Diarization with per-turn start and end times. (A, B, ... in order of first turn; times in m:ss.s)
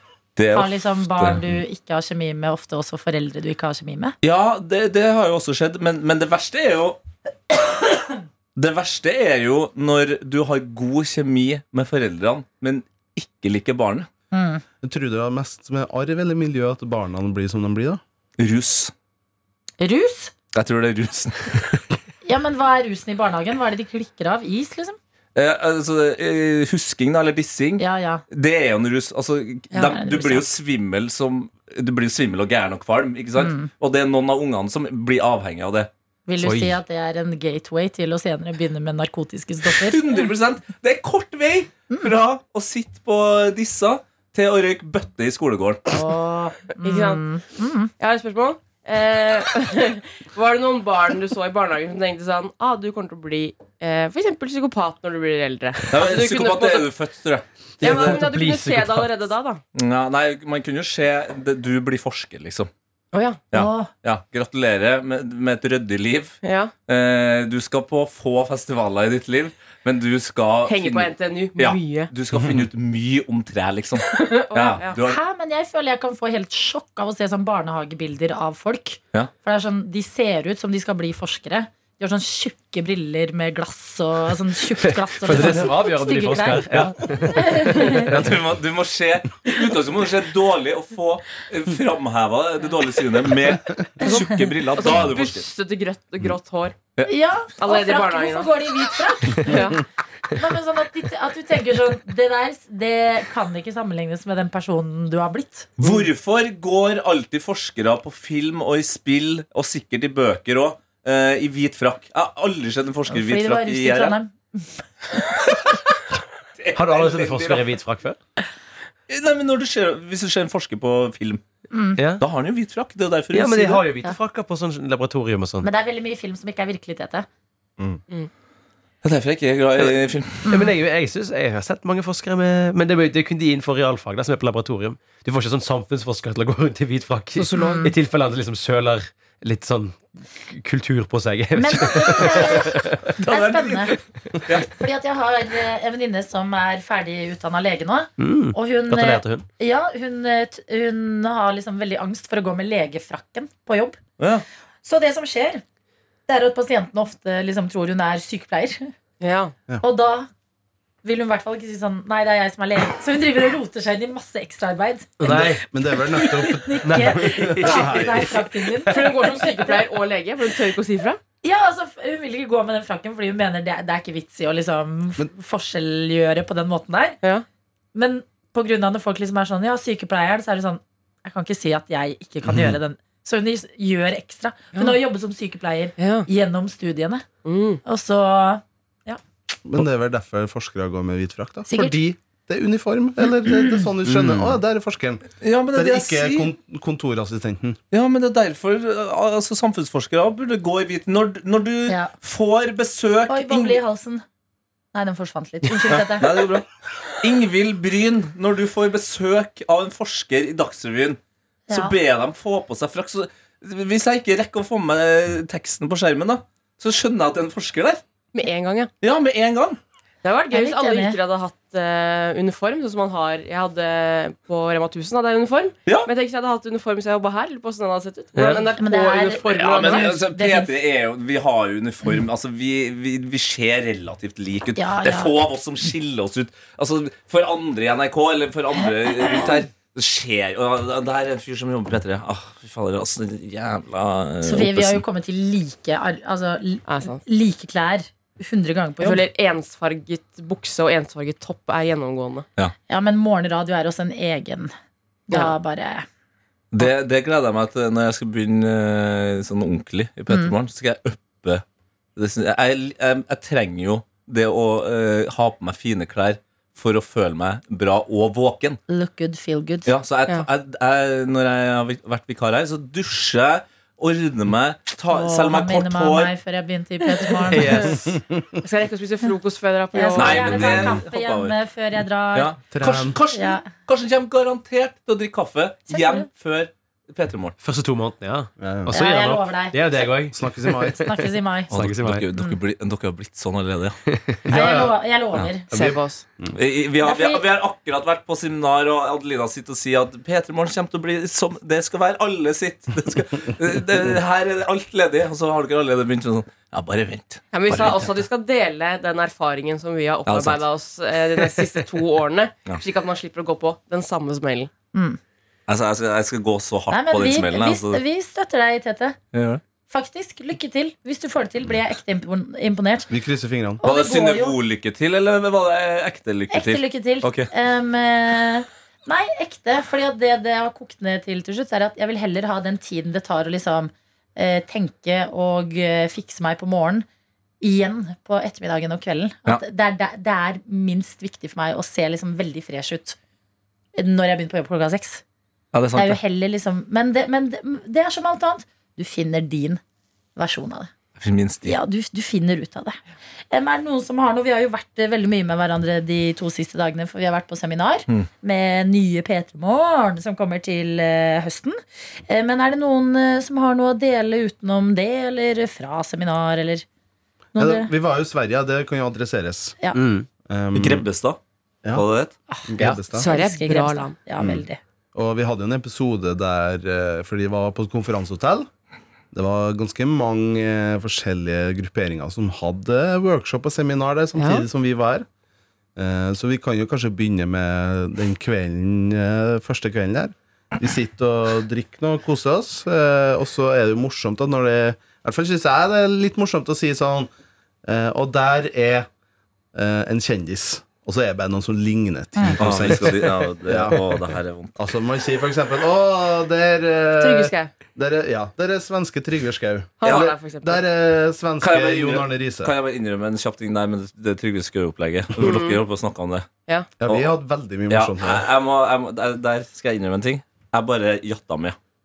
0:00.4-0:01.4 A
0:00.5-0:04.1 B
0:04.2-0:07.0 A
0:08.6-0:14.1 A
0:14.3-0:14.6 B
0:14.8-0:18.0 C
0:18.4-0:18.9 A
0:19.8-0:20.3 B
0:20.5-0:21.8 A
0:22.2-0:25.0 B
0:25.3-0:35.9 A
0:27.8-0:28.2 B
0:29.8-0:30.4 B
0:33.4-0:33.7 B
0:36.3-0:40.0 B
0:36.4-0:36.8 D
0:39.7-0:46.0 A
0:45.9-0:47.9 B
0:46.8-0:47.2 E
0:48.0-0:56.9 E
0:55.9-0:58.2 A
0:57.8-0:59.1 D
0:57.8-0:59.6 E
0:59.7-1:02.7 A
1:03.1-1:03.4 E
1:03.5-1:15.2 A
1:03.5-1:03.9 B
1:06.4-1:06.7 E
1:10.6-1:12.1 E
1:14.1-1:15.0 E
1:15.0-1:28.1 B
1:24.8-1:28.4 D
1:26.7-1:35.4 A
1:34.0-1:36.8 E
1:37.0-1:45.7 B
1:37.6-1:38.5 E
1:39.4-1:39.8 E
1:45.8-1:54.2 A
1:53.1-1:54.8 B
1:56.6-1:57.7 A
1:56.7-1:58.2 D
1:59.1-2:01.4 A
2:01.7-2:02.0 B
2:02.0-2:02.2 D
2:02.2-2:03.8 A
2:03.3-2:05.7 D
2:05.6-2:07.3 B
2:09.0-2:10.5 A
2:10.4-2:10.7 B
2:10.4-2:23.1 D
2:17.4-2:17.9 E
2:17.5-2:17.9 B
2:21.6-2:24.0 B
2:23.2-2:24.7 A
2:24.6-2:34.0 B
2:28.2-2:29.4 D
2:34.2-2:34.4 A
2:34.8-2:35.6 B
2:36.3-2:38.9 B
2:39.2-2:39.6 E
2:39.8-2:40.3 B
2:41.0-2:45.4 B
2:45.2-2:45.6 D
2:45.3-2:48.3 C
2:46.1-2:49.9 B
2:46.8-2:49.2 D
2:48.9-2:51.2 E
2:51.4-2:57.2 B
2:57.9-3:07.3 B
3:02.4-3:02.8 C
3:06.0-3:06.3 E
3:07.4-3:07.8 E
3:07.8-3:09.2 B
3:09.6-3:17.8 C
3:11.7-3:12.0 B
3:13.2-3:13.8 B
3:14.0-3:14.6 D
3:15.4-3:16.5 A
3:17.9-3:23.8 A
3:23.3-3:24.2 B
3:24.9-3:26.5 B
3:25.7-3:26.6 A
3:27.2-3:31.2 A
3:31.7-3:32.0 B
3:31.7-3:38.0 A
3:38.3-3:38.9 E
3:39.0-3:39.8 A
3:40.2-3:50.2 E
3:40.5-3:41.2 B
3:48.3-3:48.6 D
3:48.8-3:50.7 B
3:49.5-4:05.0 A
3:54.8-3:55.3 B
4:04.4-4:09.2 B
4:06.9-4:07.2 E
4:09.0-4:12.4 E
4:12.9-4:14.7 B
4:15.3-4:16.0 B
4:16.7-4:21.6 A
4:22.2-4:28.8 A
4:28.9-4:29.9 B
4:29.8-4:36.3 A
4:35.1-4:37.9 B
4:37.5-4:38.2 D
4:37.6-4:37.9 E
4:38.3-4:38.6 C
4:38.6-4:40.7 E
4:39.9-4:42.5 B
4:40.1-4:41.6 A
4:40.5-4:41.0 C
4:42.3-4:47.6 A
4:42.7-4:43.2 C
4:43.3-4:43.6 B
4:45.9-4:46.2 B
4:47.6-4:52.2 D
4:48.6-4:48.9 C
4:48.9-4:49.9 B
4:50.3-4:51.0 C
4:51.0-4:51.7 B
4:51.7-4:54.0 A
4:54.1-4:54.5 D
4:54.4-4:55.0 C
4:54.5-4:55.9 B
4:55.7-4:56.2 E
4:55.7-4:56.6 C
4:56.5-5:08.2 A
4:57.0-4:57.4 B
5:07.5-5:14.7 E
5:10.2-5:10.6 A
5:14.9-5:15.2 B
5:15.7-5:18.0 A
5:16.9-5:19.2 B
5:19.3-5:19.6 A
5:19.9-5:23.1 B
5:23.1-5:23.8 C
5:23.8-5:24.6 B
5:23.8-5:27.5 A
5:26.5-5:37.0 B
5:37.6-5:43.2 B
5:44.0-5:45.2 B
5:45.7-5:46.2 A
5:46.0-5:49.8 B
5:50.4-5:50.9 B
5:51.2-5:51.8 A
5:51.6-5:53.0 B
5:53.5-6:06.8 B
6:07.5-6:07.9 B
6:07.5-6:09.8 C
6:09.9-6:10.3 D
6:10.5-6:11.0 C
6:10.7-6:11.4 A
6:11.9-6:12.3 A
6:12.5-6:14.8 B
6:12.7-6:13.3 C
6:13.1-6:14.2 E
6:14.4-6:18.7 C
6:19.3-6:25.2 C
6:24.4-6:24.6 E
6:26.0-6:37.3 C
6:37.8-6:39.1 C
6:39.7-6:44.2 C
6:42.4-6:42.6 B
6:42.6-6:44.7 A
6:44.8-6:52.7 C
6:47.2-6:47.7 E
6:50.0-6:50.8 E
6:50.0-6:50.3 A
6:51.6-6:56.5 A
6:55.4-6:55.8 E
6:57.0-6:58.4 C
6:57.9-7:01.8 A